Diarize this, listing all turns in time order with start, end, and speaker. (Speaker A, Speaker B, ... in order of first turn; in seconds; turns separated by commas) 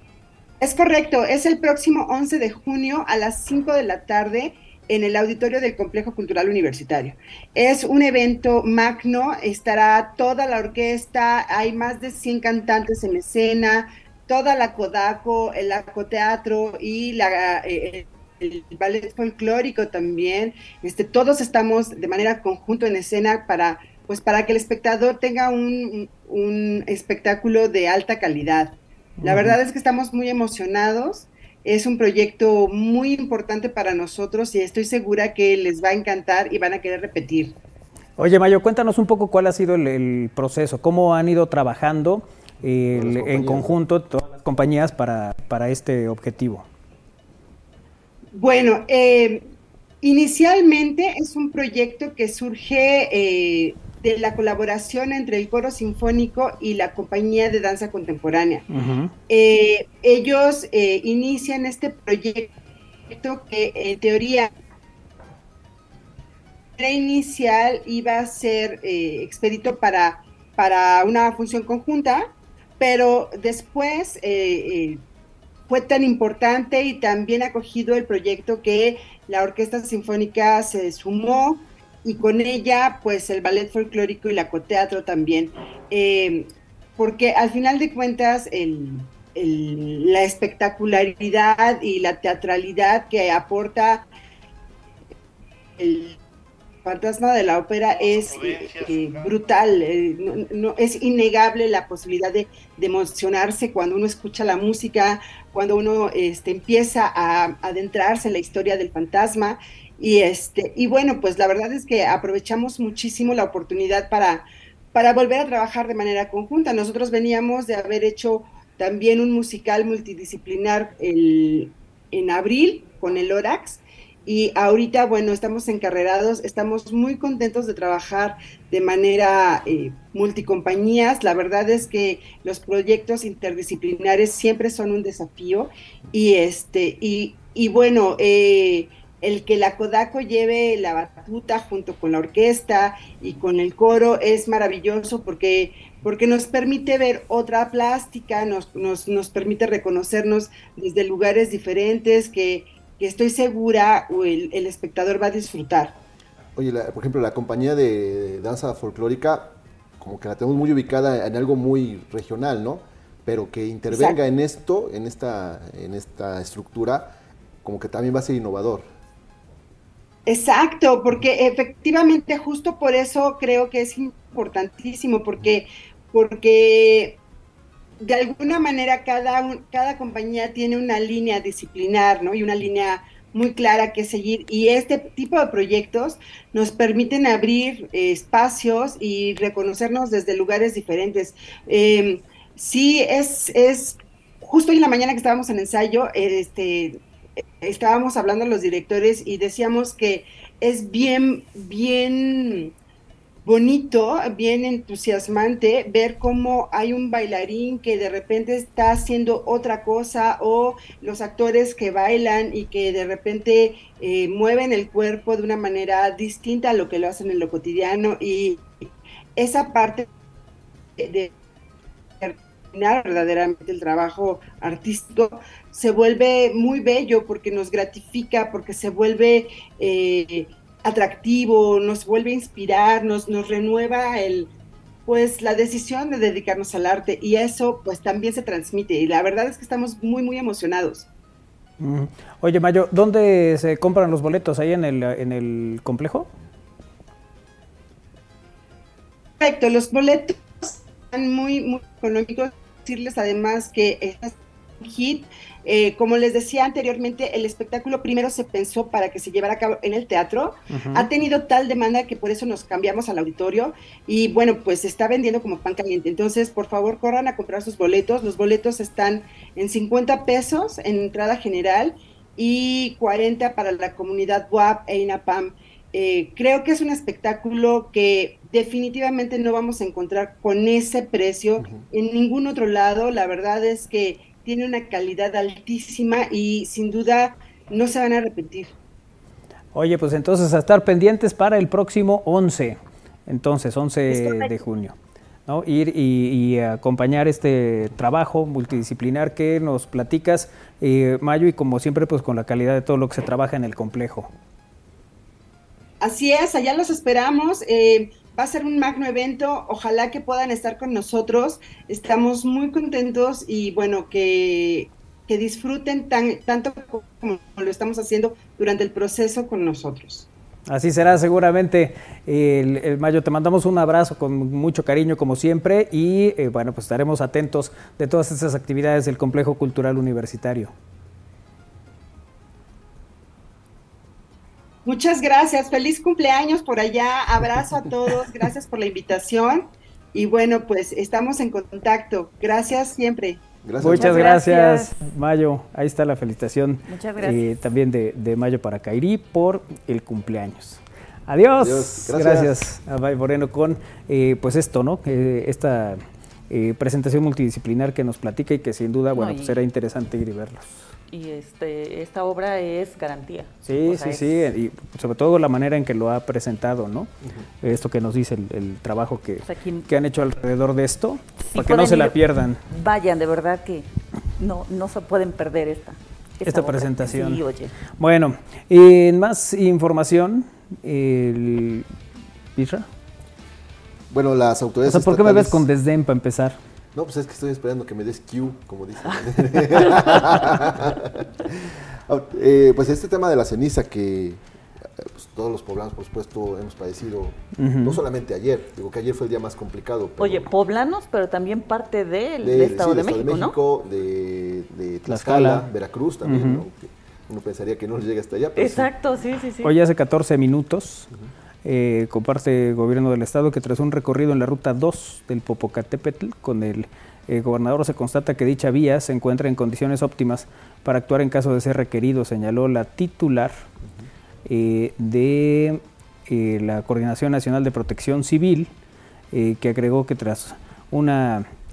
Speaker A: 0.6-37.6, Speaker B: 29.2-29.6, Speaker B: 38.2-46.7, Speaker C: 42.9-43.8, Speaker A: 48.3-49.5, Speaker A: 50.0-58.6, Speaker B: 58.7-59.1, Speaker A: 59.3-62.5, Speaker A: 63.1-64.5, Speaker A: 66.8-75.0, Speaker A: 75.7-94.1, Speaker A: 95.8-96.2, Speaker A: 96.8-156.0, Speaker C: 156.6-168.9, Speaker A: 163.9-164.2, Speaker A: 170.3-177.2, Speaker A: 178.0-197.0, Speaker A: 197.6-202.7, Speaker A: 203.4-220.1, Speaker A: 221.0-221.3, Speaker A: 222.2-234.5, Speaker A: 235.1-241.1, Speaker B: 241.8-246.3, Speaker A: 249.4-288.7, Speaker B: 260.7-261.1, Speaker B: 289.8-294.9, Speaker A: 294.1-294.5, Speaker B: 295.5-304.3, Speaker A: 306.0-320.3, Speaker B: 320.7-330.7, Speaker A: 334.9-343.4, Speaker C: 343.6-344.3, Speaker B: 343.8-360.8, Speaker D: 343.9-344.9, Speaker D: 346.9-347.4, Speaker C: 351.6-352.6, Speaker D: 359.1-359.6, Speaker D: 361.1-364.5, Speaker B: 363.6-372.6, Speaker D: 369.4-369.9, Speaker D: 371.5-377.8, Speaker B: 376.4-381.9, Speaker B: 382.6-382.9, Speaker C: 384.1-385.7, Speaker B: 384.9-386.6, Speaker C: 386.9-394.4, Speaker C: 394.9-400.5, Speaker B: 397.6-398.0, Speaker D: 400.2-403.6, Speaker C: 402.4-408.9, Speaker B: 405.1-405.7, Speaker B: 406.2-406.6, Speaker D: 408.6-409.7, Speaker B: 409.6-411.1, Speaker B: 411.6-423.6, Speaker B: 424.5-428.7, Speaker B: 429.3-431.5